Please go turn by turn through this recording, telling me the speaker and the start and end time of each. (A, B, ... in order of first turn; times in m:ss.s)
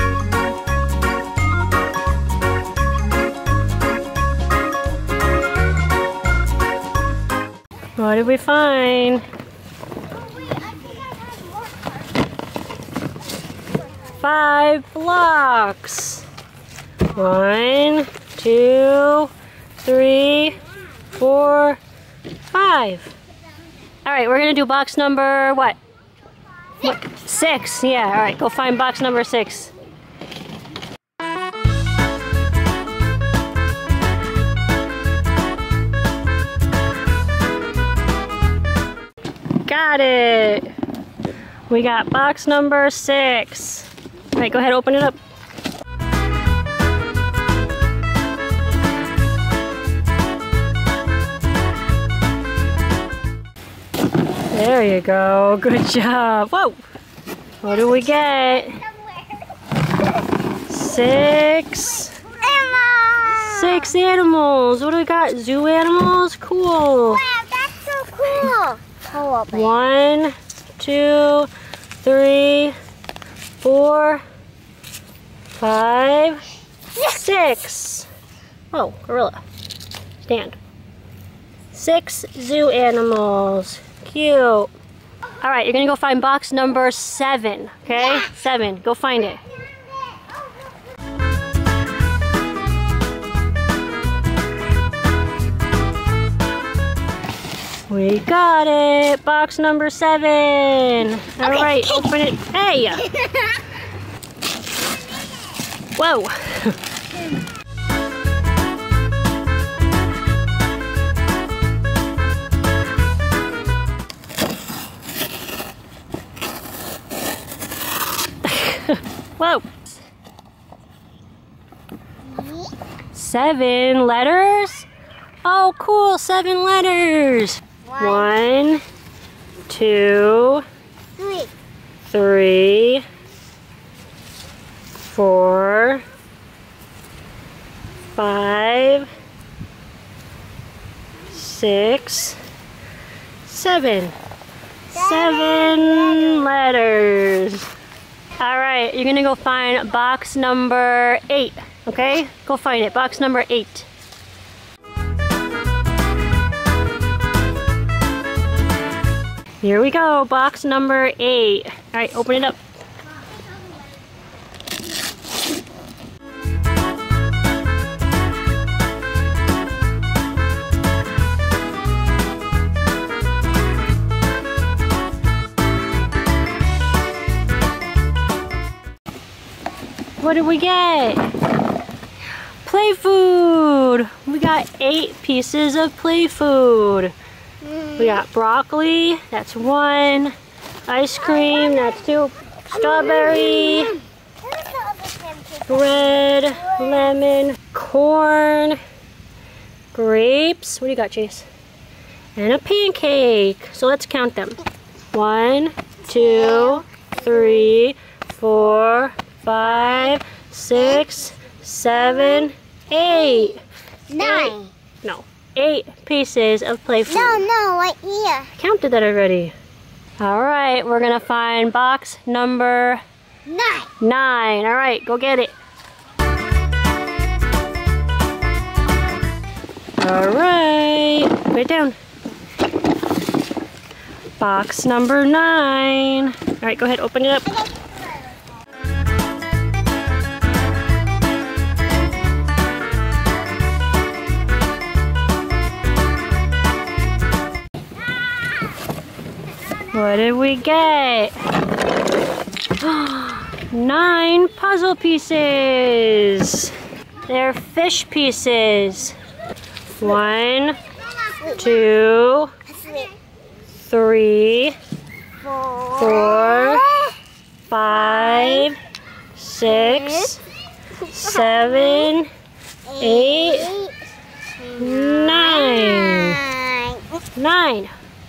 0:08.0-0:09.2 A
0:14.1-0:16.3 A
0:17.1-0:20.6 A
0:21.1-0:21.8 A
0:22.5-0:23.1 A
0:24.0-0:25.8 A
0:26.8-0:29.7 A
0:39.6-0:40.7 A
0:41.7-0:45.2 A
0:54.5-0:56.8 A
0:57.6-0:58.8 A
1:00.6-1:02.2 A
1:02.4-1:03.4 B
1:03.3-1:07.2 A
1:07.2-1:09.8 B
1:09.5-1:11.5 A
1:12.0-1:12.8 A
1:13.6-1:14.2 A
1:15.5-1:18.1 A
1:18.7-1:19.4 A
1:20.2-1:20.6 A
1:21.7-1:24.7 A
1:25.4-1:29.4 A
1:37.9-1:43.2 A
1:46.0-1:46.8 A
1:58.4-1:59.7 A
2:02.3-2:02.7 B
2:03.1-2:04.9 A
2:05.4-2:08.8 A
2:07.8-2:08.3 B
2:09.7-2:10.6 A
2:11.2-2:11.5 B
2:12.0-2:13.0 A
2:15.0-2:16.0 A
2:18.1-2:19.1 A
2:21.3-2:22.4 A
2:23.4-2:24.2 A
2:24.9-2:27.7 A
2:25.3-2:26.2 B
2:28.4-2:33.9 A
2:39.6-2:42.6 A
3:00.2-3:01.3 A
3:02.6-3:07.1 A
3:07.9-3:10.3 A
3:10.9-3:14.0 A
3:14.4-3:15.6 B
3:15.6-3:18.8 A
3:19.9-3:21.4 A
3:22.4-3:24.6 A
3:25.1-3:33.6 A
3:34.1-3:34.7 B
3:34.2-3:37.4 A
3:37.1-3:38.5 B
3:38.5-3:39.5 A
3:40.2-3:43.0 A
3:43.4-3:43.9 B
3:44.0-3:45.6 A
3:50.0-3:52.0 A
3:54.4-3:57.6 A
4:09.9-4:11.4 A
4:12.8-4:16.8 A
4:17.3-4:19.2 A
4:19.9-4:20.8 A
4:21.4-4:22.5 A
4:22.8-4:23.1 B
4:23.8-4:24.8 A
4:25.5-4:27.2 B
4:25.9-4:27.0 A
4:27.7-4:28.8 A
4:28.2-4:28.7 B
4:29.3-4:30.4 A
4:31.0-4:32.3 A
4:32.9-4:34.0 B
4:33.0-4:33.8 A
4:34.7-4:36.5 A
4:35.1-4:37.1 B
4:37.3-4:37.9 A